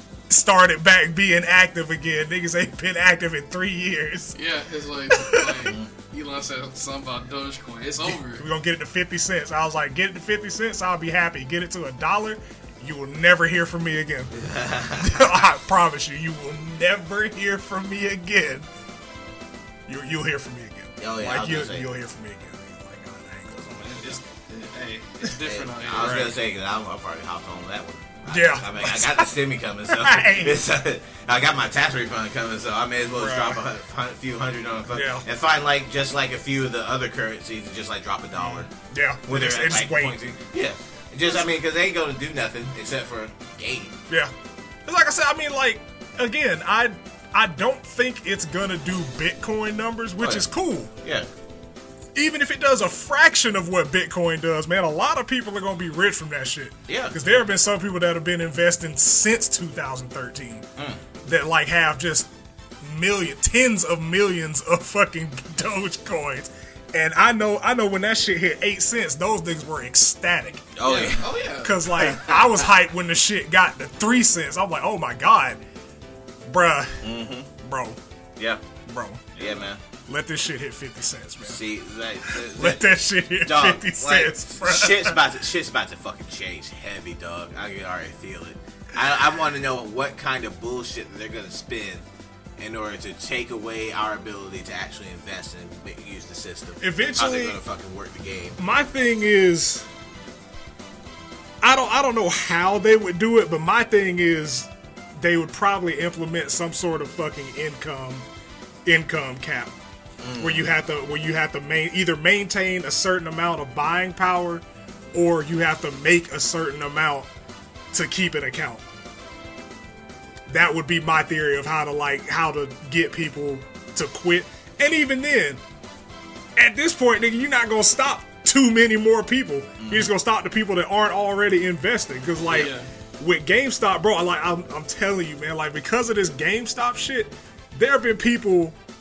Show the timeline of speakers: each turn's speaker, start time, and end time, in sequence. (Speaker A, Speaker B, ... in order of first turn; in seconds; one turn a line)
Speaker A: 0.3-4.3
Speaker B: 4.3-8.4
Speaker A: 5.1-5.7
Speaker A: 8.0-14.3
Speaker C: 14.3-15.2
Speaker A: 15.0-18.7
Speaker A: 19.9-24.2
Speaker C: 21.0-21.9
Speaker B: 23.6-26.3
Speaker C: 25.4-38.7
Speaker A: 26.0-26.3
Speaker A: 28.3-29.3
Speaker A: 29.9-30.6
Speaker A: 33.2-33.6
Speaker A: 34.9-35.2
Speaker A: 38.4-40.2
Speaker C: 39.3-44.0
Speaker A: 44.9-50.9
Speaker C: 50.2-50.5
Speaker A: 52.1-60.7
Speaker C: 56.9-57.2
Speaker A: 61.2-62.3
Speaker A: 62.8-70.7
Speaker C: 70.8-71.2
Speaker B: 70.8-72.7
Speaker A: 71.6-75.6
Speaker A: 76.5-77.0
Speaker C: 77.0-77.5
Speaker A: 77.6-78.0
Speaker A: 78.9-79.5
Speaker C: 79.4-79.8
Speaker A: 80.1-81.6
Speaker C: 81.4-82.8
Speaker A: 82.3-85.2
Speaker C: 83.4-92.0
Speaker C: 92.6-98.6
Speaker A: 96.8-97.6
Speaker A: 98.6-99.9
Speaker A: 101.6-108.3
Speaker A: 108.9-109.7
Speaker C: 110.2-110.7
Speaker A: 110.4-117.3
Speaker A: 117.9-118.8
Speaker A: 120.5-125.6
Speaker A: 126.6-138.8
Speaker C: 129.8-130.1
Speaker B: 132.5-132.9